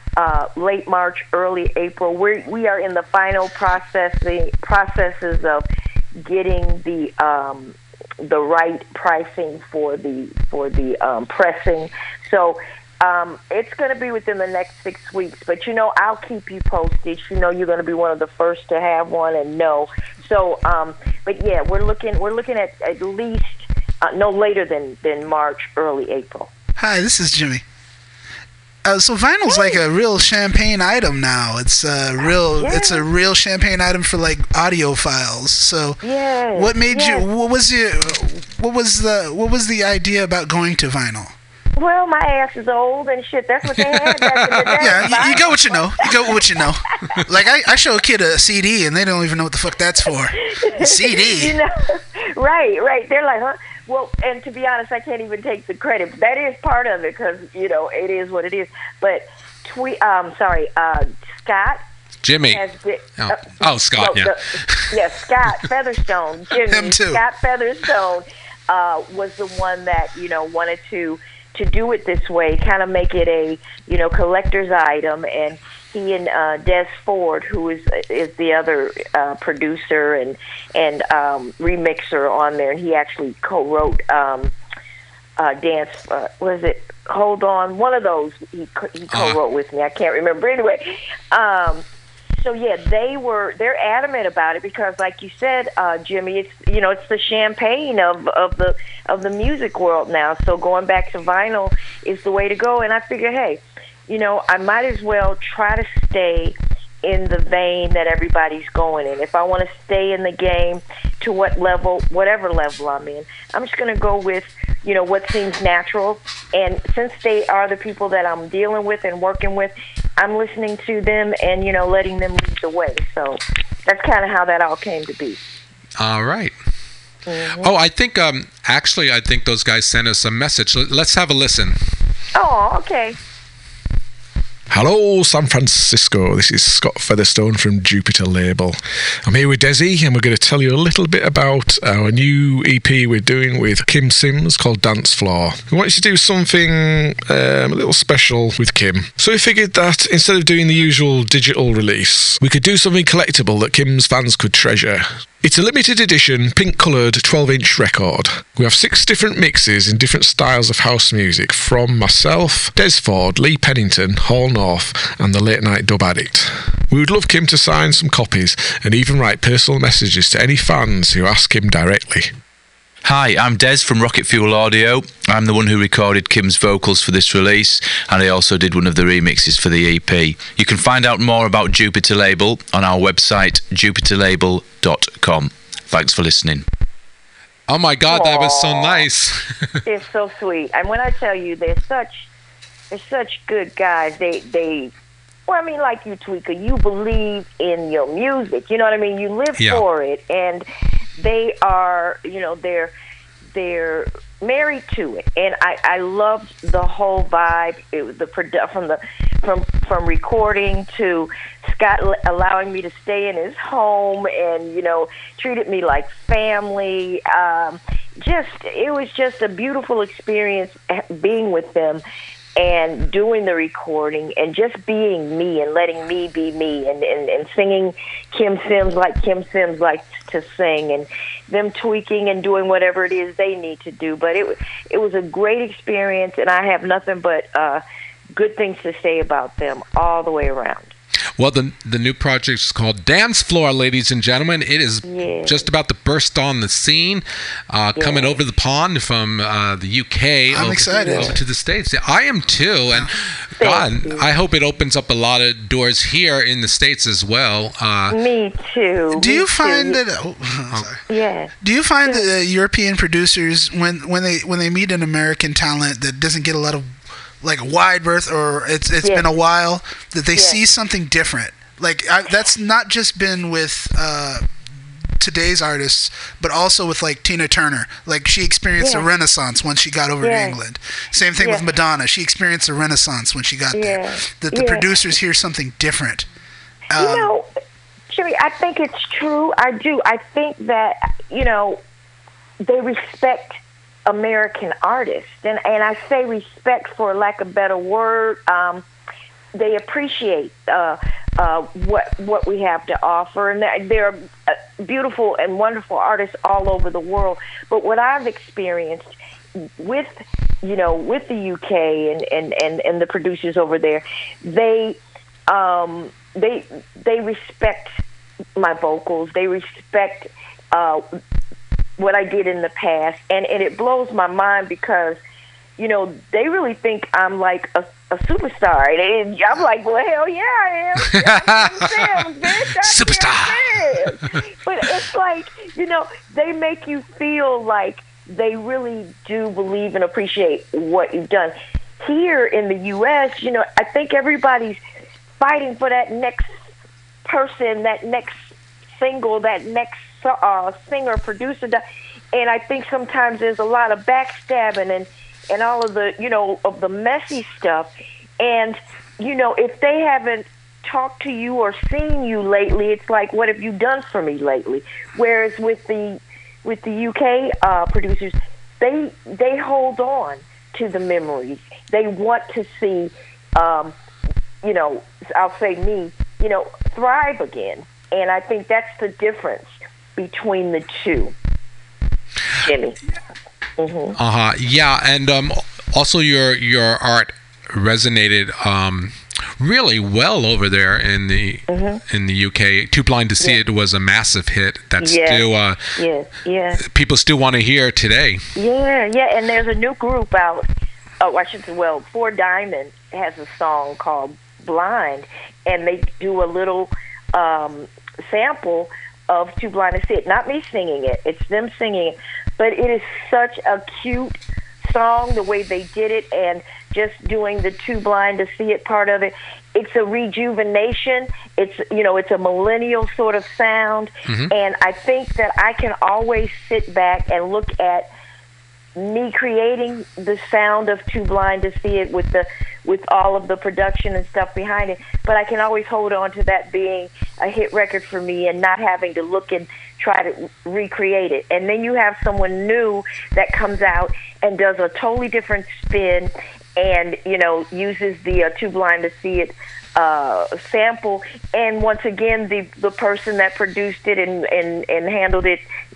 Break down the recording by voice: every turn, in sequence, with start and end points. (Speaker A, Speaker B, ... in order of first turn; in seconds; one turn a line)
Speaker A: 0.2-5.6
Speaker A: 6.2-26.5
Speaker B: 26.8-27.6
Speaker B: 28.8-36.0
Speaker A: 29.5-29.8
Speaker A: 32.6-33.0
Speaker A: 36.0-37.3
Speaker B: 36.5-41.3
Speaker A: 41.8-46.4
Speaker C: 43.8-44.8
Speaker B: 44.8-51.5
Speaker A: 50.6-61.8
Speaker C: 62.2-62.6
Speaker A: 62.5-84.5
Speaker C: 63.2-65.0
Speaker B: 66.7-67.2
Speaker A: 85.4-91.8
Speaker C: 89.1-89.4
Speaker A: 92.4-125.4
Speaker C: 126.0-126.5
Speaker A: 127.3-127.7
Speaker C: 127.6-131.8
Speaker A: 132.3-133.2
Speaker D: 134.7-172.3
Speaker E: 173.0-186.6
Speaker C: 187.7-189.7
Speaker A: 188.1-189.1
Speaker A: 189.8-192.3
Speaker A: 192.9-194.9
Speaker A: 195.5-200.6
Speaker C: 199.6-199.8
Speaker A: 201.2-202.9
Speaker A: 203.5-222.0
Speaker A: 222.6-237.8
Speaker A: 238.3-240.9
Speaker C: 241.4-258.2
Speaker A: 245.1-245.7
Speaker A: 248.0-248.4
Speaker B: 250.5-251.3
Speaker A: 250.7-251.3
Speaker A: 253.6-254.3
Speaker A: 258.1-260.0
Speaker B: 259.1-261.0
Speaker A: 261.1-261.5
Speaker B: 261.6-266.9
Speaker B: 267.4-274.4
Speaker A: 269.0-269.3
Speaker A: 270.3-270.6
Speaker B: 275.2-286.3
Speaker A: 278.8-279.1
Speaker A: 280.2-280.6
Speaker A: 281.4-281.7
Speaker A: 283.7-284.9
Speaker B: 286.9-287.3
Speaker A: 286.9-287.5
Speaker A: 288.1-291.8
Speaker A: 292.6-298.8
Speaker A: 299.6-309.1
Speaker A: 309.8-310.1
Speaker A: 310.6-317.9
Speaker A: 318.6-321.0
Speaker A: 322.0-325.2
Speaker A: 325.8-344.8
Speaker C: 331.0-334.4
Speaker A: 345.4-346.5
Speaker A: 347.3-348.4
Speaker A: 349.0-351.8
Speaker A: 352.3-373.9
Speaker A: 374.6-381.3
Speaker A: 382.6-383.0
Speaker A: 383.8-384.1
Speaker C: 384.1-395.9
Speaker A: 391.7-392.0
Speaker A: 395.0-396.8
Speaker C: 396.8-398.4
Speaker A: 398.6-400.6
Speaker A: 401.2-428.1
Speaker C: 424.3-424.5
Speaker A: 428.9-455.6